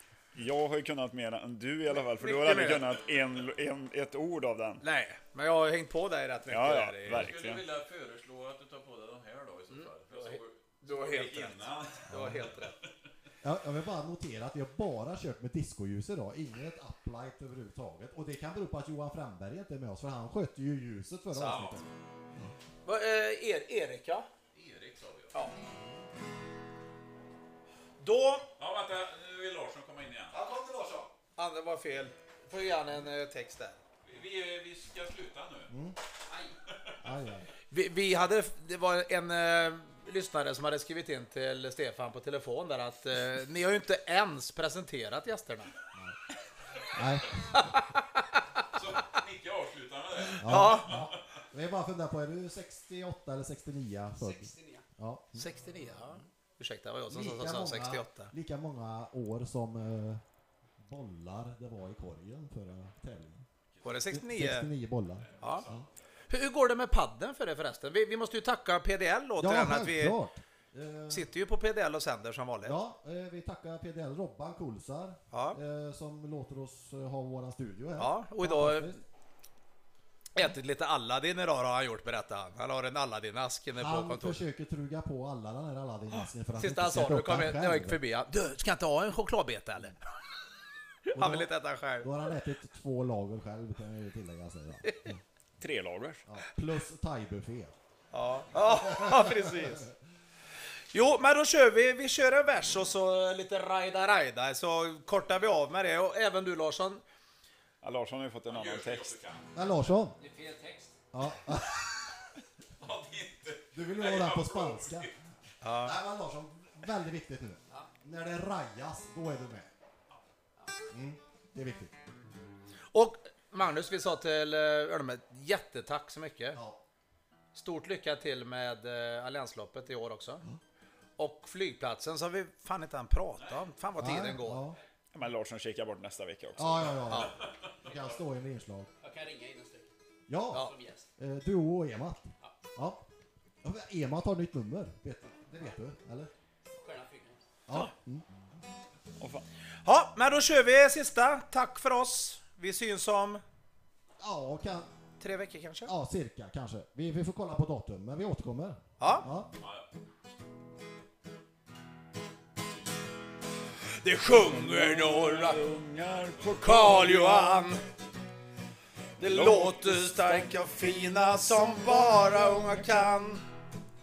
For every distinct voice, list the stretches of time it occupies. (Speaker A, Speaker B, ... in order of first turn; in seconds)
Speaker A: 0.3-4.8, 6.5-7.6, 95.6-96.2, 107.8-109.2, 135.1-137.0, 149.2-149.4, 164.2-167.7, 169.2-173.0
Speaker B: 2.2-2.9, 4.8-7.3, 9.7-12.7, 21.3-21.8, 22.8-24.3, 28.0-28.5, 30.3-33.8, 37.7-45.7, 47.5-48.6, 50.4-51.1, 55.4-58.3, 63.8-64.7, 65.4-65.7, 66.3-70.2, 71.1-72.8, 75.3-75.6, 78.0-79.0, 80.3-84.4, 86.5-90.0, 91.1-92.1, 98.1-99.9, 100.9-107.0, 115.6-116.0, 122.9-126.6, 127.5-130.4, 131.2-134.6, 149.8-153.4, 155.2-155.9, 159.0-159.3, 164.0-165.7, 166.6-167.8, 169.2-173.4
Speaker C: 2.5-2.9, 7.0-12.1, 21.4-21.8, 24.5-25.4, 28.6-30.4, 34.0-35.7, 36.7-37.0, 48.7-51.4, 65.3-65.8, 108.5-109.7, 112.8-115.1, 137.2-137.8, 159.6-159.9
Speaker D: 12.1-12.5, 13.4-22.5, 35.7-36.0, 37.0-37.5, 46.9-47.7, 50.4-56.2, 57.1-60.2, 60.8-63.4, 64.1-65.9, 69.4-71.3, 72.6-79.0, 83.7-88.0, 91.1-95.2, 96.2-97.8, 98.5-99.9, 109.5-110.2, 111.1-112.2, 113.7-115.1, 115.7-119.7, 120.9-121.9, 126.5-126.8, 134.0-134.8, 136.6-138.9, 140.3-143.0, 143.6-146.3, 147.7-148.2, 154.2-154.9, 155.8-159.5
Speaker E: 54.1-54.8, 110.2-111.0, 139.0-139.9, 140.6-141.1, 146.8-147.4